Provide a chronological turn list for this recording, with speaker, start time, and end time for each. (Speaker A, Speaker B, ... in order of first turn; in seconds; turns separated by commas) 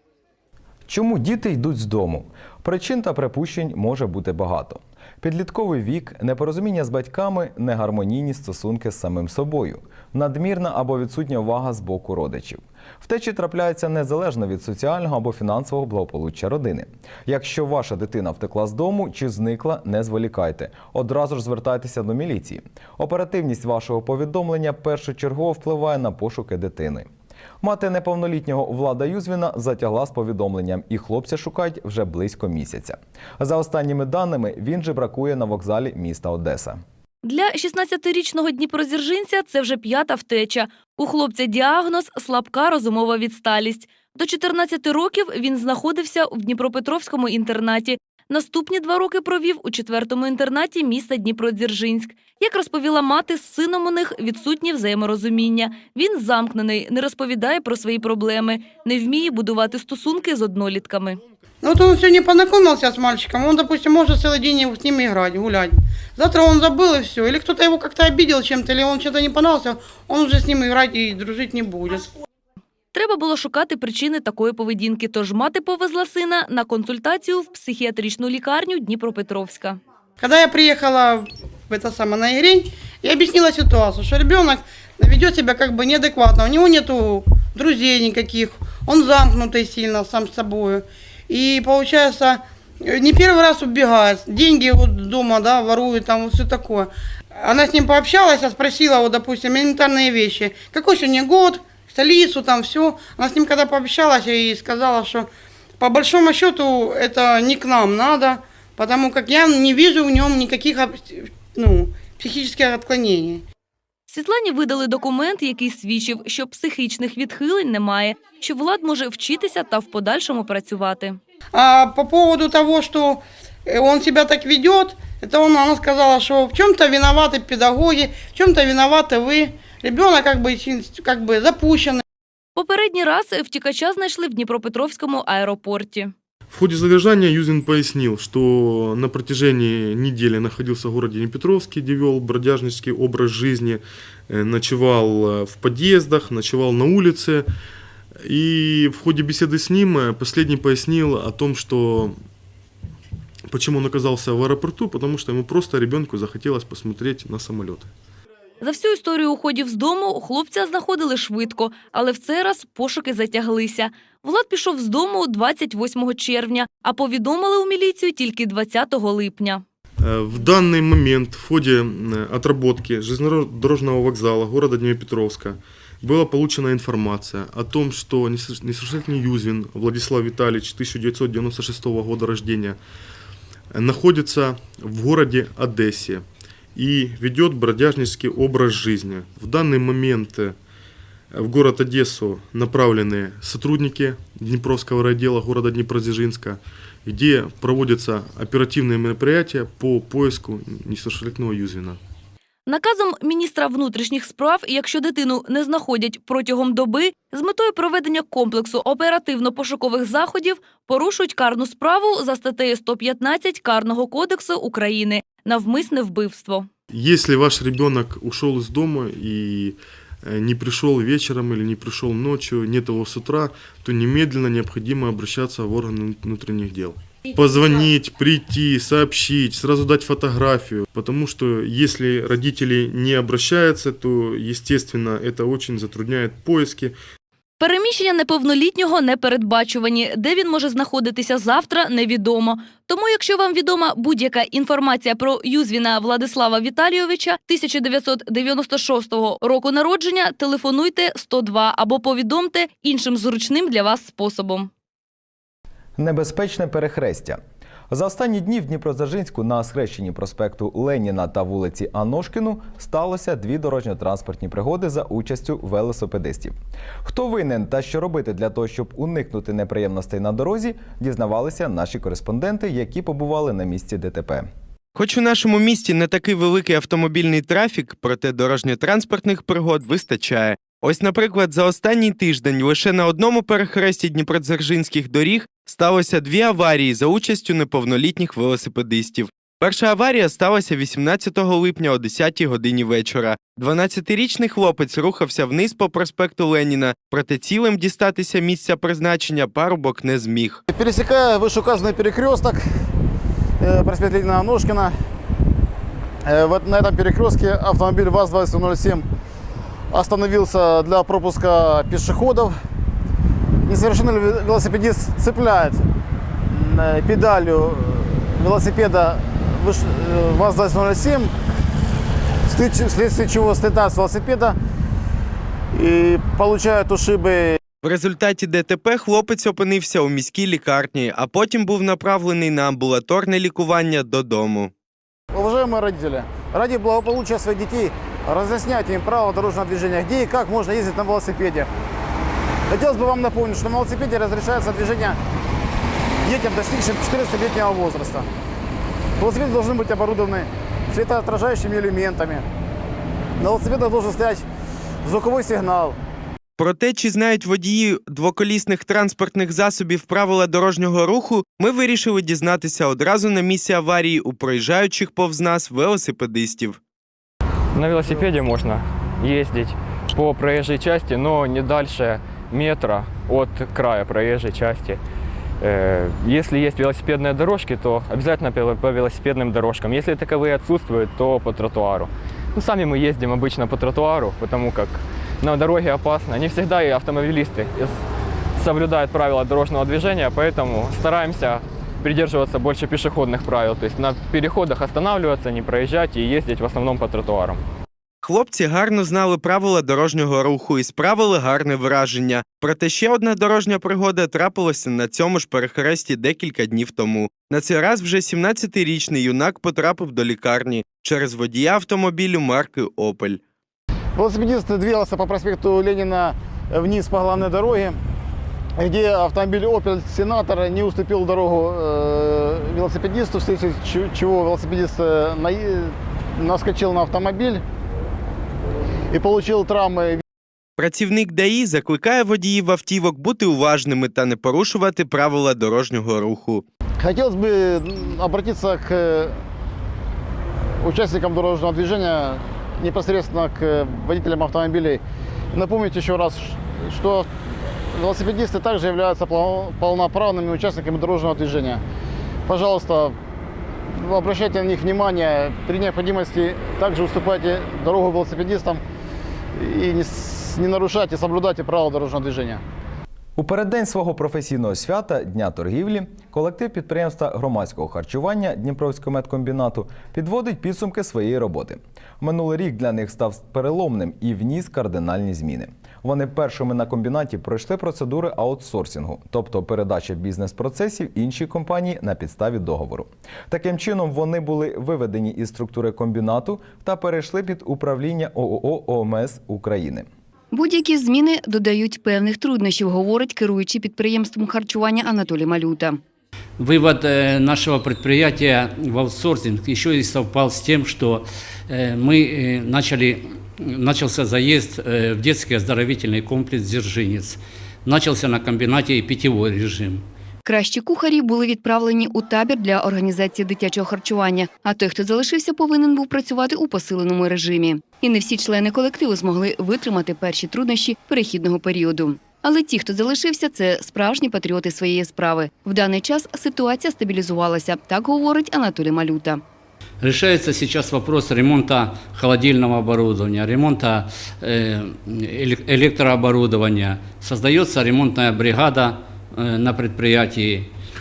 Speaker A: 0.9-27.1, Speaker A: 27.6-36.8, Speaker B: 37.2-61.2, Speaker C: 61.6-72.1, Speaker B: 72.9-79.8, Speaker C: 80.2-105.3, Speaker C: 105.8-113.4, Speaker B: 114.1-121.2, Speaker C: 121.5-132.0, Speaker B: 132.6-136.1, Speaker D: 136.5-147.5, Speaker D: 148.2-152.2, Speaker D: 153.5-157.9, Speaker B: 158.6-169.6, Speaker D: 170.0-182.8, Speaker D: 183.7-190.6, Speaker D: 191.3-202.0, Speaker B: 202.7-216.7, Speaker D: 216.9-237.0, Speaker B: 237.6-254.7, Speaker A: 256.0-274.5, Speaker E: 274.9-300.6, Speaker F: 300.7-302.6, Speaker F: 303.6-304.9, Speaker F: 306.3-309.1, Speaker F: 309.9-312.6, Speaker F: 313.6-315.8, Speaker F: 316.5-321.3, Speaker F: 322.5-324.6, Speaker F: 325.8-327.6, Speaker E: 327.8-334.7, Speaker F: 335.3-341.7, Speaker F: 342.7-345.2, Speaker F: 346.2-348.3, Speaker F: 349.2-352.4, Speaker F: 353.4-354.4, Speaker F: 355.0-356.0, Speaker E: 356.6-366.8, Speaker G: 367.7-375.0, Speaker G: 375.6-388.0, Speaker G: 388.6-397.6, Speaker E: 398.2-413.4, Speaker F: 414.2-418.0, Speaker F: 418.8-427.6, Speaker F: 429.1-430.2, Speaker E: 430.8-436.6, Speaker F: 437.0-439.4, Speaker F: 440.8-445.0, Speaker F: 445.5-447.3, Speaker F: 447.9-451.8, Speaker F: 452.5-453.1, Speaker F: 453.9-458.8, Speaker F: 459.6-462.6, Speaker A: 463.4-490.1, Speaker H: 490.5-496.0, Speaker I: 496.6-510.1, Speaker H: 510.5-529.4, Speaker I: 530.0-540.7